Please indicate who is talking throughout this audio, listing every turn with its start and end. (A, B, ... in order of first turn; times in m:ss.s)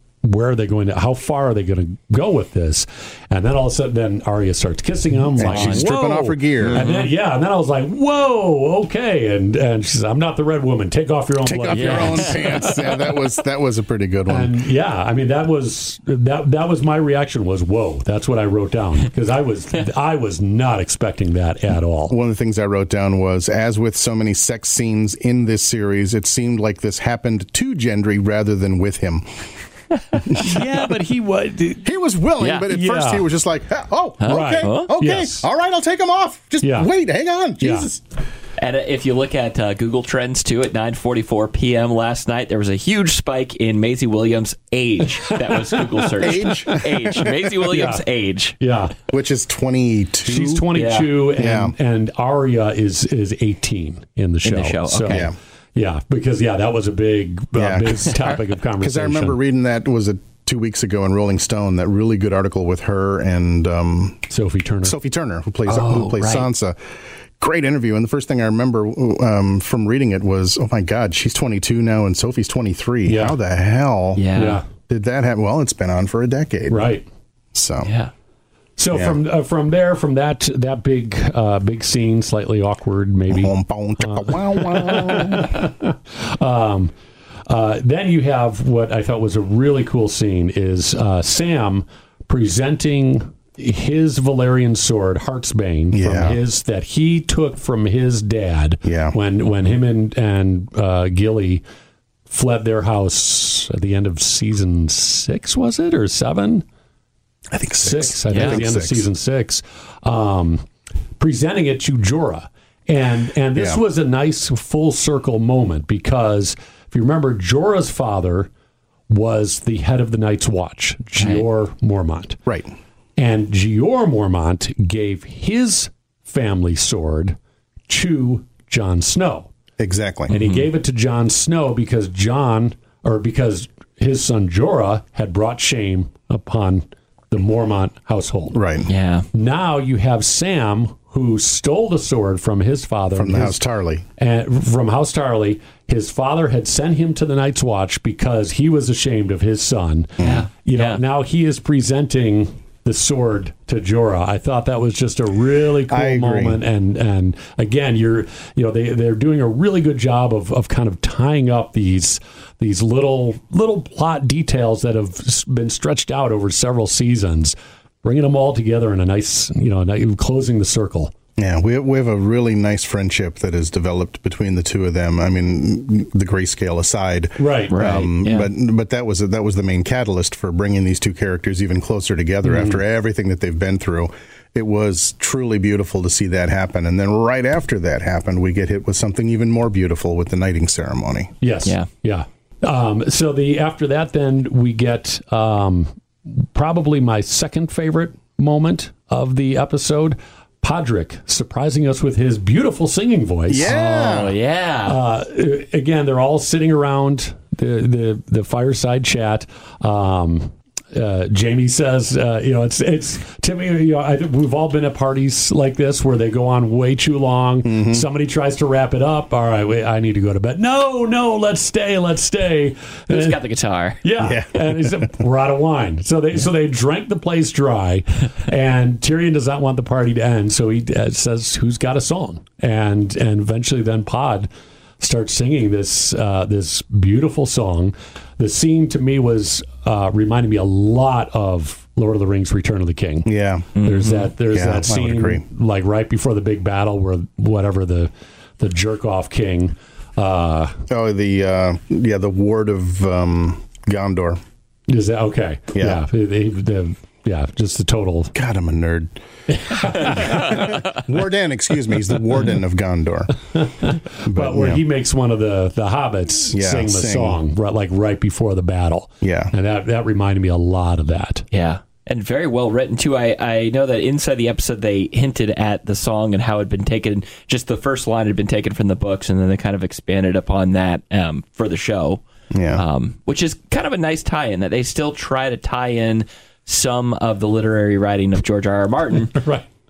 0:00.2-0:12.9 A
0:05.4-0:06.9 B
0:05.5-0:05.8 C
0:06.7-0:07.1 C
0:11.4-0:14.6 B
0:11.7-0:12.4 C
0:14.3-0:22.1 A
0:22.1-0:29.5 B
0:30.1-0:30.6 B
0:30.3-0:31.9 A
0:31.8-0:38.0 B
0:32.4-0:32.7 C
0:32.5-0:33.3 A
0:34.2-0:34.9 C
0:34.2-0:35.5 A
0:36.6-0:36.9 A
0:37.6-0:37.9 A
0:38.6-0:48.5 C
0:45.3-0:46.3 A
0:46.2-0:47.5 B
0:47.7-0:48.0 A
0:48.6-0:48.9 A
0:49.1-0:50.7 B
0:50.2-0:59.4 A
0:50.7-0:51.1 C
0:51.4-0:51.7 B
0:54.4-0:55.3 C
0:55.1-0:55.4 B
0:57.5-1:04.3 B
1:04.3-1:04.9 A
1:04.8-1:06.8 B
1:05.7-1:06.5 C
1:07.4-1:14.2 B
1:13.1-1:13.4 A
1:14.2-1:14.6 C
1:14.3-1:14.6 A
1:14.8-1:16.8 B
1:16.7-1:17.0 A
1:17.5-1:17.9 B
1:17.8-1:18.1 C
1:18.8-1:26.9 A
1:23.3-1:25.6 B
1:27.5-1:41.6 A
1:35.9-1:36.4 B
1:38.8-1:39.2 B
1:42.3-1:46.6 A
1:47.5-1:49.1 B
1:47.8-1:50.7 A
1:48.3-1:48.6 C
1:51.2-1:58.5 A
1:53.5-1:53.8 B
1:59.1-2:02.4 A
2:01.2-2:01.4 C
2:03.2-2:07.4 A
2:07.9-2:09.5 A
2:09.8-2:10.3 B
2:10.3-2:18.6 A
2:10.3-2:10.6 C
2:18.5-2:18.9 B
2:18.9-2:19.3 C
2:19.3-2:23.6 A
2:23.1-2:24.0 B
2:24.2-2:51.1 A
2:30.2-2:30.4 B
2:30.2-2:31.0 C
2:35.9-2:36.6 B
2:51.4-3:11.3 B
2:57.4-2:57.7 A
2:57.7-2:58.5 C
3:02.4-3:02.8 A
3:11.4-3:23.7 A
3:23.5-3:24.3 B
3:23.6-3:25.0 C
3:24.8-3:43.4 A
3:37.6-3:38.0 B
3:43.1-3:44.0 C
3:44.0-3:54.5 A
3:44.2-3:45.2 B
3:55.0-4:10.8 A
4:03.2-4:03.7 B
4:03.7-4:04.3 C
4:04.5-4:05.4 B
4:10.9-4:14.4 B
4:14.9-4:18.3 A
4:15.7-4:16.0 B
4:18.3-4:19.1 B
4:19.5-4:20.8 A
4:19.9-4:23.4 B
4:23.5-4:31.4 A
4:24.2-4:24.8 B
4:26.5-4:27.4 B
4:29.2-4:29.5 B
4:31.5-4:49.4 C
4:42.5-4:42.8 B
4:49.4-4:49.6 A